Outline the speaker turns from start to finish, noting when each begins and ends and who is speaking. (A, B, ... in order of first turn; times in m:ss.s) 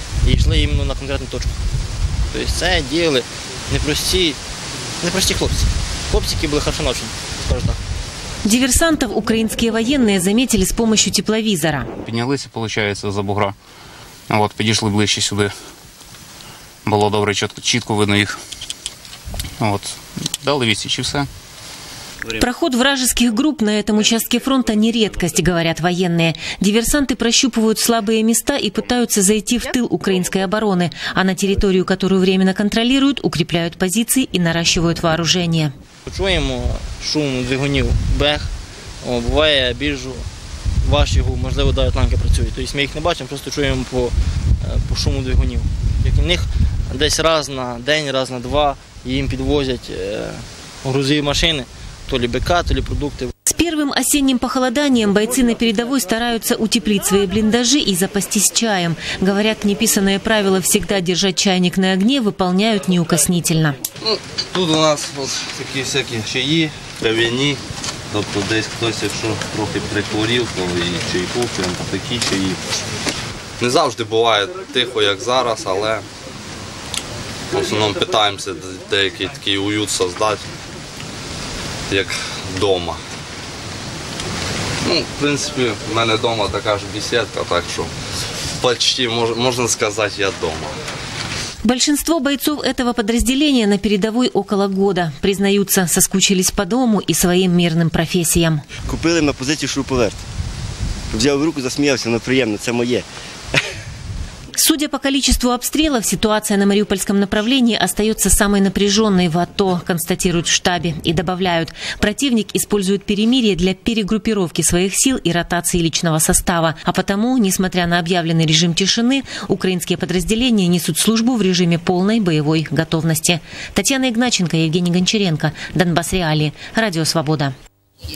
0:00.2-0:01.6 A
0:02.3-0:04.4 A
0:05.0-0:07.8 A
0:08.4-0:11.9 B
0:12.0-0:13.6 C
0:14.3-0:15.5 C
0:16.8-0:18.4 C
0:19.6-0:21.3 C
0:22.4-0:35.7 B
0:36.1-0:38.5 A
0:39.0-0:40.2 A
0:40.8-0:53.3 A
0:53.5-1:03.8 B
1:04.0-1:12.6 D
1:13.6-1:16.1 D
1:17.5-1:20.4 D
1:21.9-1:23.0 D
1:24.8-1:27.9 D
1:28.6-1:30.8 D
1:31.6-1:38.6 B
1:38.8-1:40.2 E
1:41.1-1:43.0 E
1:44.6-2:07.5 B